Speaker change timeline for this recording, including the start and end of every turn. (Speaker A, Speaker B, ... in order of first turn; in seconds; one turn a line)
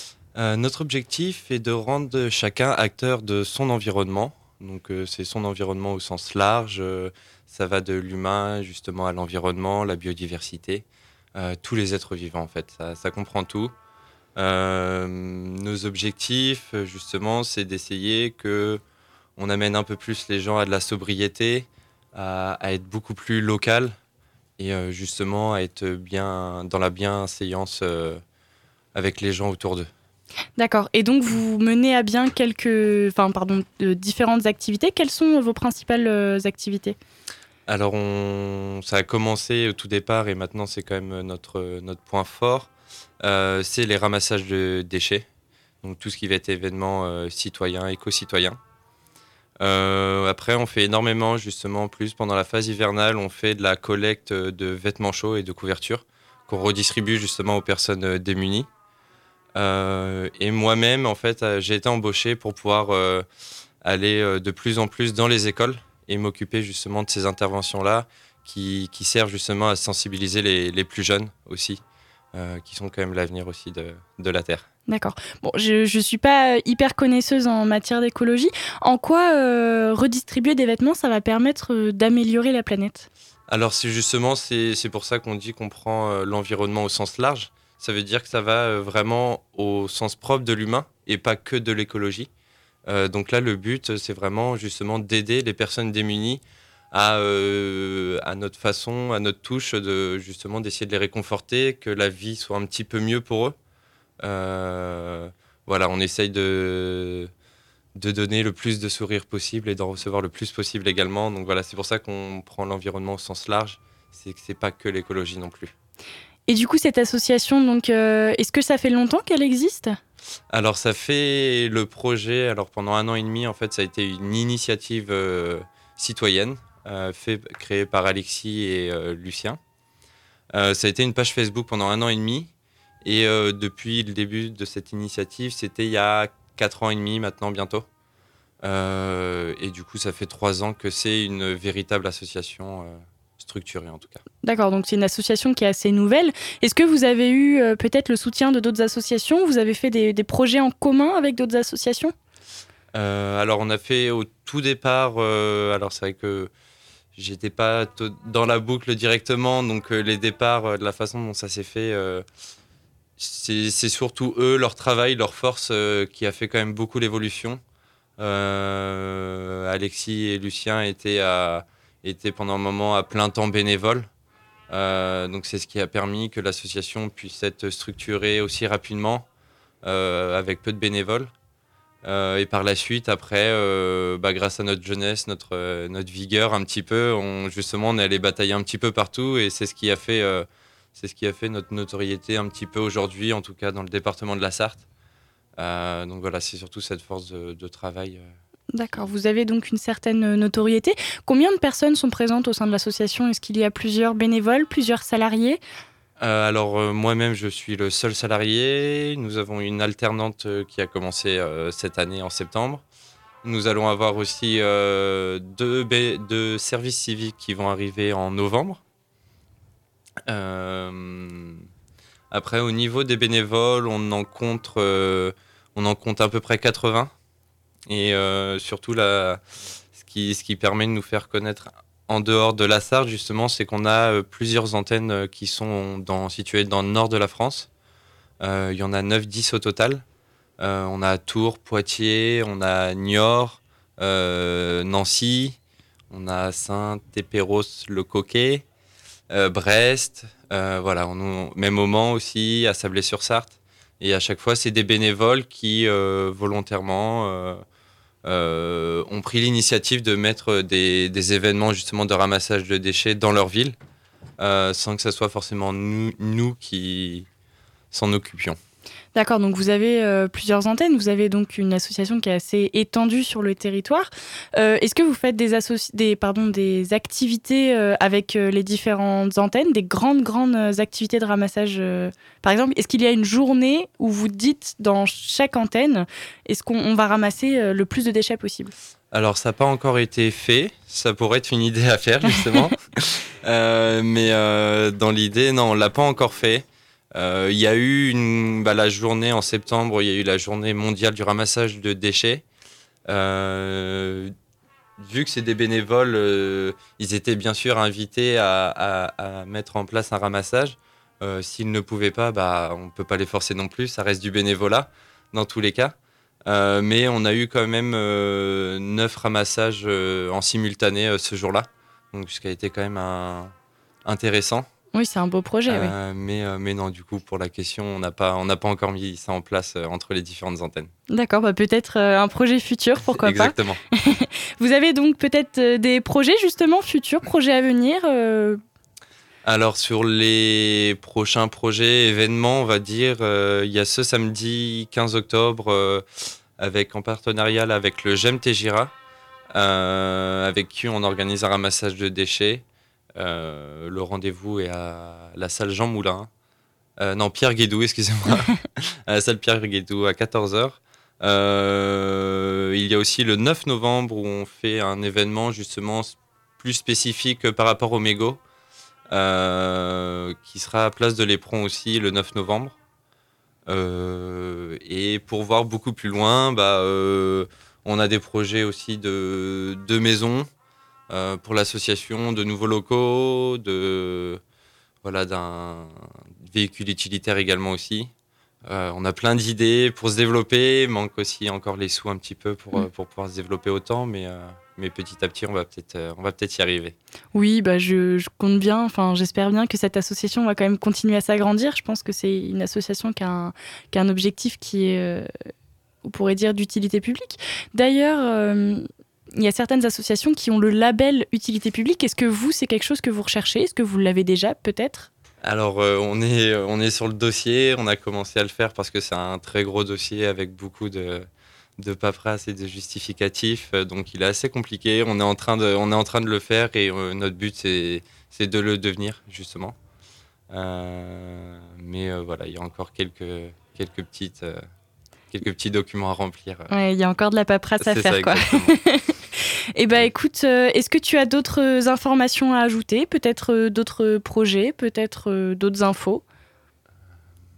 Speaker A: 0.3-13.7
Speaker A: 14.3-18.8
Speaker A: 19.4-23.9
Speaker A: 24.6-28.2
Speaker A: 28.9-29.9
Speaker B: 30.6-37.0
Speaker A: 37.7-42.7
Speaker A: 43.2-45.2
Speaker A: 45.8-48.6
Speaker A: 49.6-58.7
Speaker A: 59.5-63.2
Speaker A: 63.8-71.8
Speaker A: 72.3-74.7
Speaker B: 74.9-83.1
Speaker A: 83.5-92.3
Speaker A: 92.8-103.5
Speaker A: 104.2-107.3
Speaker A: 107.9-115.7
Speaker B: 116.5-120.0
Speaker A: 120.5-129.6
Speaker A: 130.5-132.5
Speaker A: 133.0-137.8
Speaker A: 138.6-144.2
Speaker B: 144.4-152.1
Speaker A: 152.9-156.5
Speaker A: 157.2-162.2
Speaker A: 163.2-167.6
Speaker A: 168.2-174.1
Speaker A: 174.7-179.2
Speaker A: 179.8-181.3
Speaker A: 182.0-194.8
Speaker A: 195.6-198.3
Speaker B: 198.7-205.6
Speaker A: 206.2-212.8
Speaker A: 213.4-218.8
Speaker A: 220.3-221.6
Speaker A: 222.3-227.1
Speaker A: 227.9-229.4
Speaker A: 230.0-237.7
Speaker A: 238.4-240.0
Speaker A: 240.6-245.6
Speaker A: 246.1-248.6
Speaker A: 249.3-257.6
Speaker A: 258.2-263.8
Speaker A: 264.4-267.3
Speaker A: 267.9-268.6
Speaker B: 269.1-288.7
Speaker A: 289.1-302.4
Speaker A: 303.1-304.3
Speaker A: 305.0-315.9
Speaker A: 316.4-323.5
Speaker A: 324.0-324.7
Speaker B: 324.9-325.9
Speaker A: 325.7-330.9
Speaker B: 331.1-338.6
Speaker A: 333.2-333.8
Speaker A: 339.4-346.0
Speaker A: 346.6-348.9
Speaker A: 349.5-352.6
Speaker A: 353.1-356.3
Speaker A: 357.0-368.4
Speaker A: 369.1-372.7
Speaker A: 373.7-380.5
Speaker A: 381.1-384.4
Speaker A: 385.0-388.1
Speaker A: 388.6-396.9
Speaker B: 397.3-405.3
Speaker B: 406.0-415.1
Speaker A: 415.4-421.3
Speaker A: 421.8-429.8
Speaker A: 430.5-434.6
Speaker A: 435.3-436.7
Speaker B: 436.7-439.1
Speaker A: 437.8-438.8
Speaker B: 439.8-446.2